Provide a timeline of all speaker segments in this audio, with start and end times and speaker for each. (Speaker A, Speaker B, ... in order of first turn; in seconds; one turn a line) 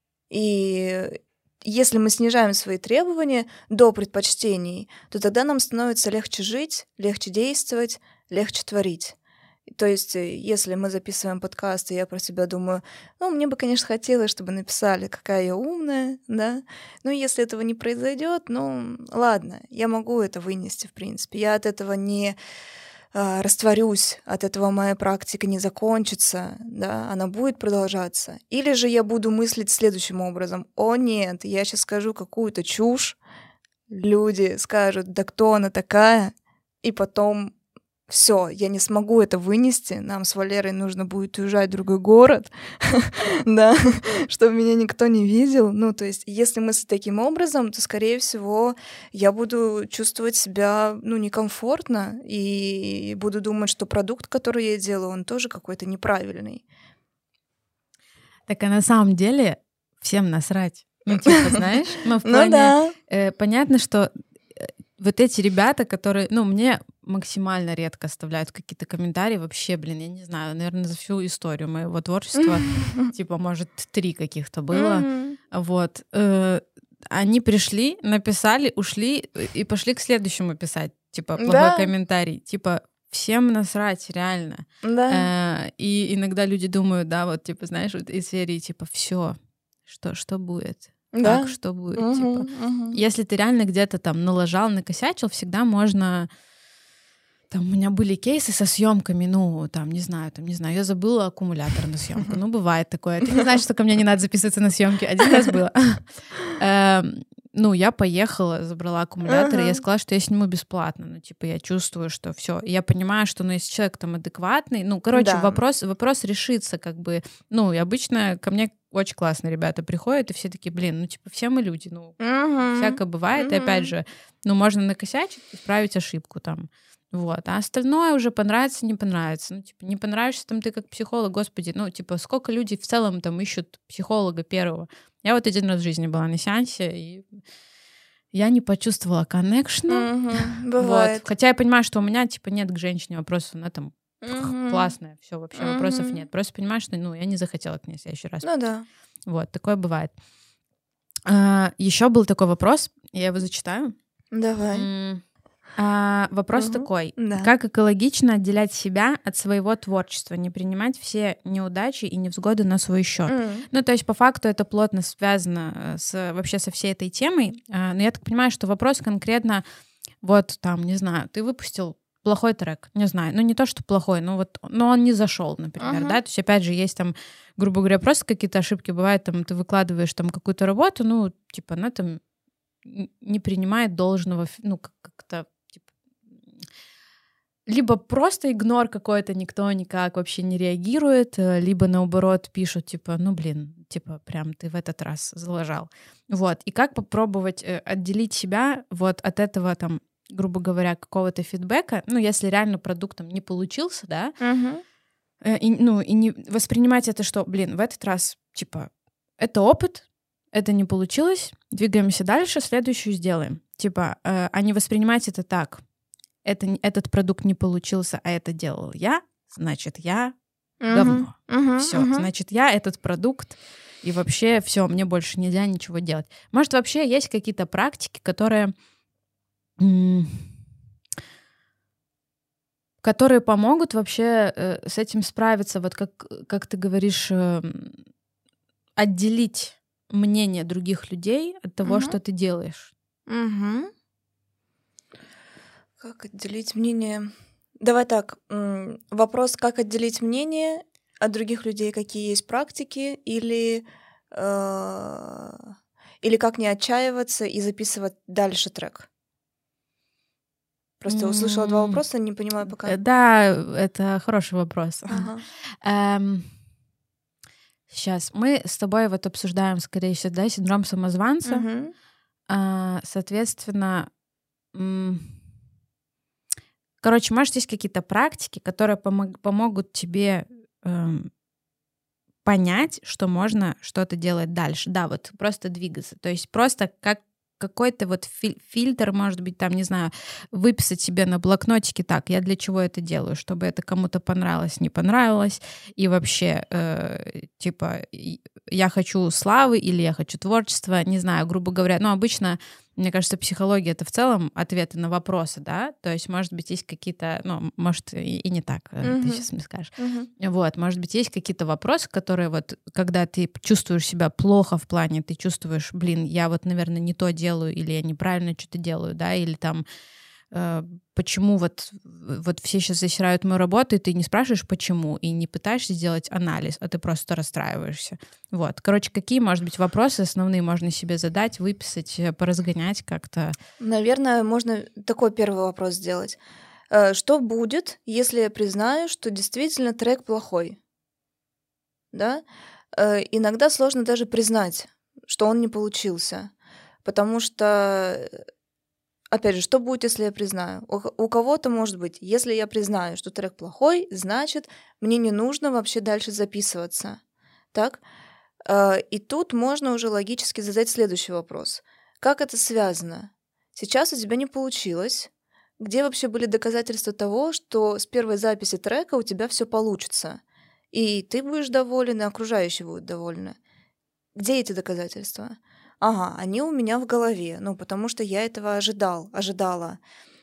Speaker A: 0.3-9.2
Speaker A: 9.7-22.4
Speaker A: 23.1-33.2
Speaker A: 33.9-37.5
Speaker A: 38.1-56.6
Speaker B: 58.5-89.4
Speaker A: 61.3-61.6
Speaker A: 62.2-62.9
Speaker A: 72.4-73.1
Speaker A: 74.7-75.4
Speaker A: 81.4-81.9
Speaker A: 84.8-85.3
Speaker B: 89.9-96.3
Speaker A: 91.1-93.0
Speaker B: 97.5-137.3
Speaker A: 109.3-109.8
Speaker A: 115.1-115.6
Speaker A: 122.2-123.9
Speaker B: 138.3-148.5
Speaker A: 139.9-141.2
Speaker A: 144.2-144.9
Speaker A: 145.6-146.2
Speaker A: 148.4-148.9
Speaker B: 149.3-150.1
Speaker B: 151.3-153.9
Speaker A: 154.3-154.9
Speaker B: 154.7-155.2
Speaker B: 155.8-169.6
Speaker A: 156.6-157.5
Speaker A: 163.3-163.7
Speaker B: 170.2-182.2
Speaker A: 175.8-176.2
Speaker B: 182.8-185.7
Speaker B: 187.7-204.3
Speaker A: 204.4-204.8
Speaker B: 205.4-215.8
Speaker B: 216.4-220.4
Speaker A: 220.8-222.3
Speaker B: 220.9-228.7
Speaker B: 229.8-230.5
Speaker B: 233.0-238.0
Speaker B: 239.0-242.9
Speaker A: 241.8-242.2
Speaker A: 243.3-243.9
Speaker A: 246.0-259.1
Speaker A: 261.0-263.0
Speaker B: 261.1-262.0
Speaker B: 262.8-265.3
Speaker A: 265.1-265.4
Speaker B: 265.8-266.5
Speaker B: 267.9-271.6
Speaker A: 271.5-271.9
Speaker B: 272.5-274.1
Speaker B: 274.7-275.4
Speaker B: 277.0-281.3
Speaker B: 282.4-319.9
Speaker A: 309.0-309.4
Speaker A: 310.0-310.3
Speaker B: 320.5-333.6
Speaker A: 333.8-336.4
Speaker A: 336.9-340.8
Speaker A: 342.1-342.4
Speaker A: 342.9-346.5
Speaker A: 347.1-348.3
Speaker A: 349.3-357.2
Speaker A: 357.7-358.0
Speaker A: 358.7-370.4
Speaker A: 370.9-373.6
Speaker A: 374.4-380.0